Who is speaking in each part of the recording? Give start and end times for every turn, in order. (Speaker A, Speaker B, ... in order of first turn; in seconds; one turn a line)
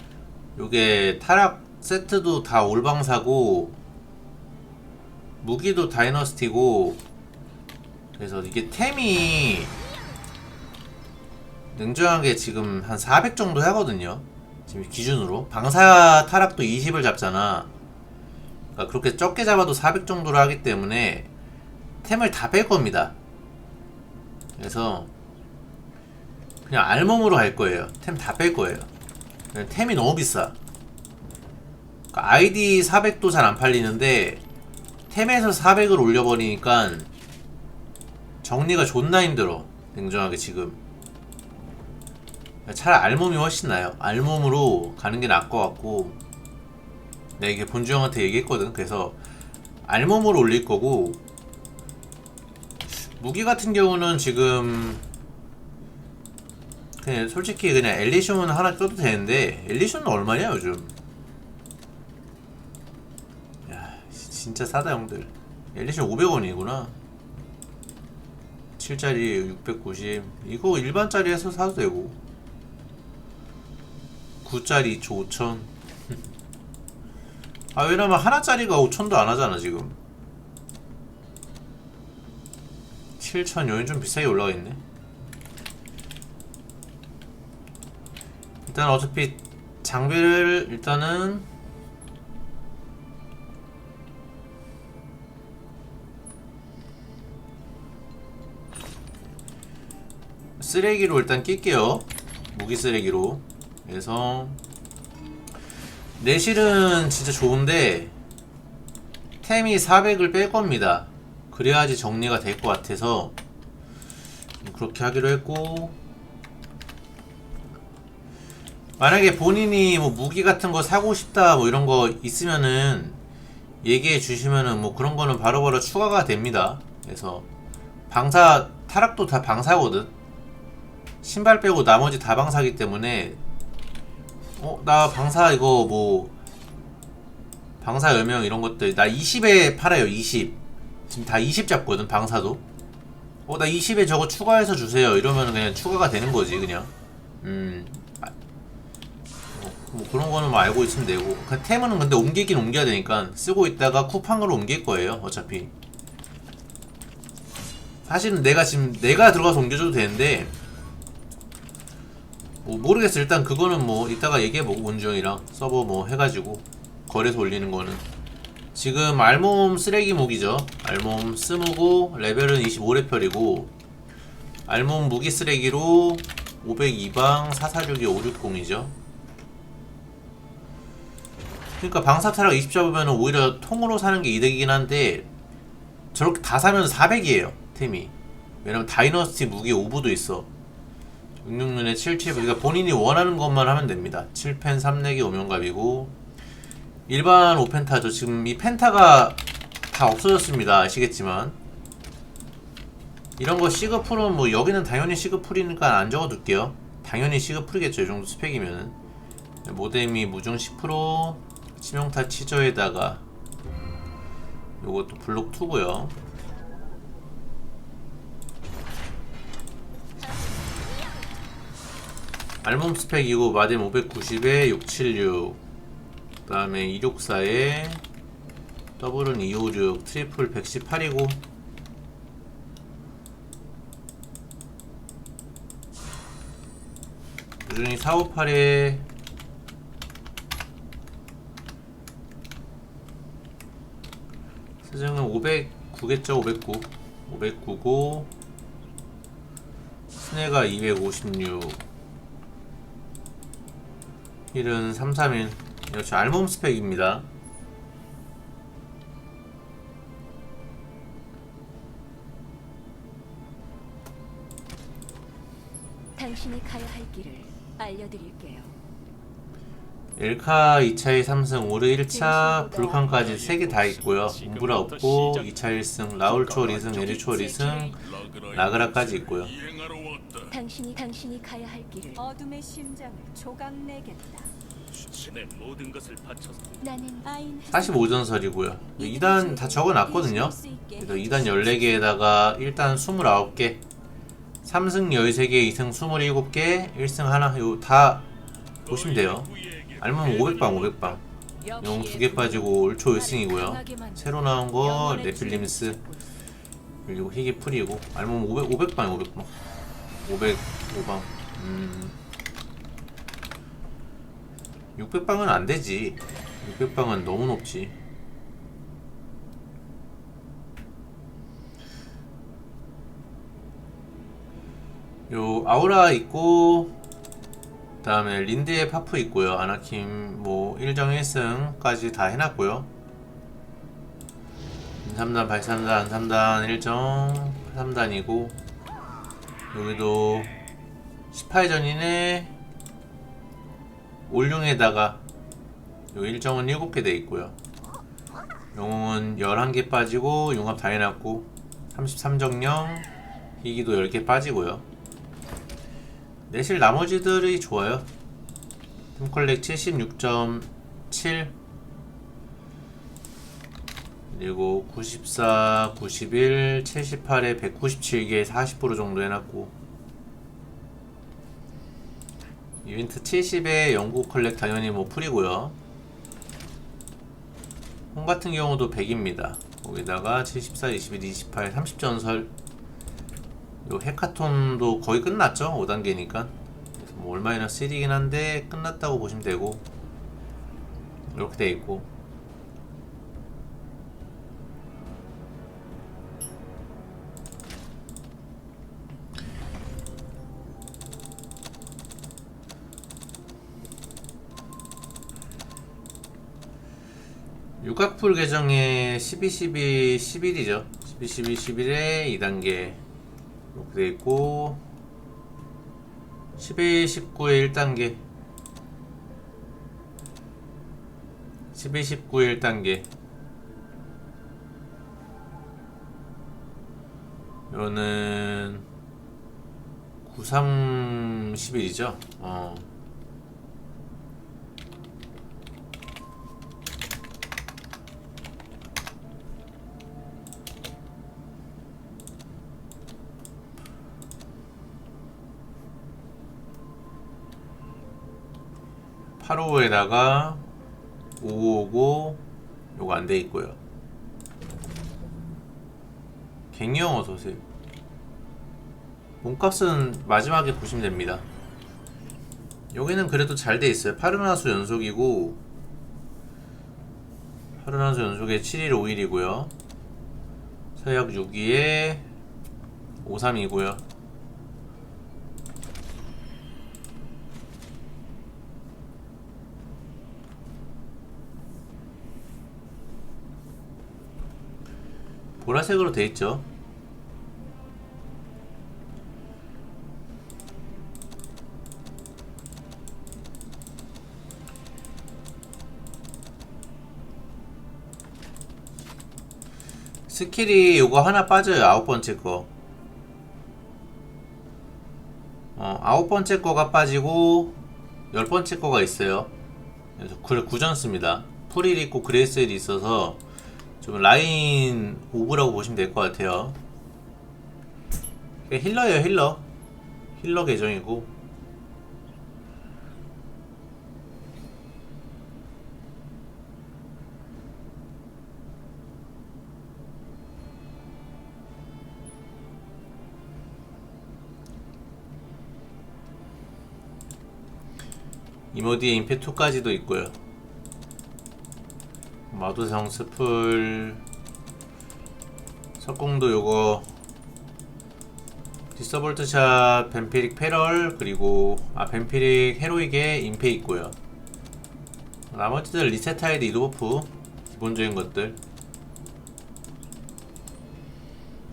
Speaker A: 0.6-3.8
Speaker A: 5.4-7.0
Speaker A: 8.1-9.7
Speaker A: 11.7-17.7
Speaker A: 18.8-21.3
Speaker A: 22.0-23.1
Speaker A: 24.6-25.1
Speaker A: 26.6-28.9
Speaker A: 29.5-30.6
Speaker A: 32.1-34.4
Speaker A: 35.1-37.1
Speaker A: 38.4-40.8
Speaker A: 42.7-46.2
Speaker A: 47.4-49.2
Speaker A: 49.8-51.2
Speaker A: 52.9-55.0
Speaker A: 57.0-60.9
Speaker A: 63.7-66.9
Speaker A: 68.8-72.2
Speaker A: 74.4-75.7
Speaker A: 77.7-80.0
Speaker A: 83.2-84.8
Speaker A: 88.7-91.5
Speaker A: 100.6-104.6
Speaker A: 106.2-108.1
Speaker A: 109.4-113.3
Speaker A: 114.6-116.0
Speaker A: 119.0-123.2
Speaker A: 123.8-127.5
Speaker A: 128.1-130.1
Speaker A: 131.2-133.4
Speaker A: 134.6-136.3
Speaker A: 137.8-142.6
Speaker A: 143.5-148.3
Speaker A: 149.5-155.7
Speaker A: 158.1-160.5
Speaker A: 162.6-168.1
Speaker A: 168.7-173.7
Speaker A: 174.7-178.9
Speaker A: 181.8-185.3
Speaker A: 186.1-190.5
Speaker A: 191.4-196.1
Speaker A: 197.1-201.6
Speaker A: 203.4-209.0
Speaker A: 209.6-213.2
Speaker A: 214.8-216.2
Speaker A: 222.6-225.6
Speaker A: 226.5-228.0
Speaker A: 229.0-231.4
Speaker A: 237.7-239.1
Speaker A: 244.8-248.3
Speaker A: 250.1-251.8
Speaker A: 254.5-257.3
Speaker B: 266.1-268.8
Speaker A: 270.2-278.0
Speaker B: 272.1-273.1
Speaker C: 273.0-275.6
Speaker C: 276.2-277.2
Speaker B: 276.9-278.0
Speaker C: 277.9-280.5
Speaker A: 278.5-279.5
Speaker B: 280.5-282.3
Speaker D: 282.2-284.5
Speaker C: 284.9-286.9
Speaker B: 286.8-287.4
Speaker D: 287.2-288.2
Speaker A: 287.7-293.8
Speaker D: 289.0-292.1
Speaker B: 289.2-290.4
Speaker A: 294.6-298.3
Speaker C: 298.9-301.2
Speaker A: 298.9-301.2
Speaker B: 301.6-306.2
Speaker A: 301.8-306.0
Speaker A: 307.1-309.5
Speaker A: 310.2-312.2
Speaker A: 314.9-317.9
Speaker A: 325.3-326.9
Speaker A: 328.0-332.9
Speaker A: 335.0-338.6
Speaker A: 339.7-340.5
Speaker A: 341.3-342.6
Speaker A: 344.3-345.2
Speaker A: 346.1-347.6
Speaker A: 348.7-353.1
Speaker A: 353.6-354.9
Speaker A: 356.5-358.1
Speaker A: 359.2-361.6
Speaker A: 364.3-369.7
Speaker A: 372.8-375.8
Speaker A: 378.1-382.5
Speaker A: 383.8-389.9
Speaker A: 391.3-392.1
Speaker A: 407.8-413.0
Speaker A: 413.7-414.8
Speaker A: 416.6-418.2
Speaker A: 421.7-423.1
Speaker A: 427.7-428.9
Speaker A: 430.2-432.9
Speaker A: 449.4-450.6
Speaker A: 451.4-452.4
Speaker A: 452.9-453.8
Speaker A: 456.7-457.6
Speaker A: 459.4-461.4
Speaker A: 462.9-465.6
Speaker A: 467.8-469.7
Speaker A: 471.0-472.2
Speaker A: 473.2-474.0
Speaker A: 485.6-486.6
Speaker A: 500.3-502.7
Speaker A: 505.8-507.8
Speaker A: 508.3-509.5
Speaker A: 510.2-513.4
Speaker A: 514.0-516.8
Speaker A: 518.7-519.6
Speaker A: 520.4-521.3
Speaker A: 538.7-540.4
Speaker A: 542.5-544.2
Speaker A: 546.0-547.1
Speaker A: 549.0-554.1
Speaker A: 555.5-558.6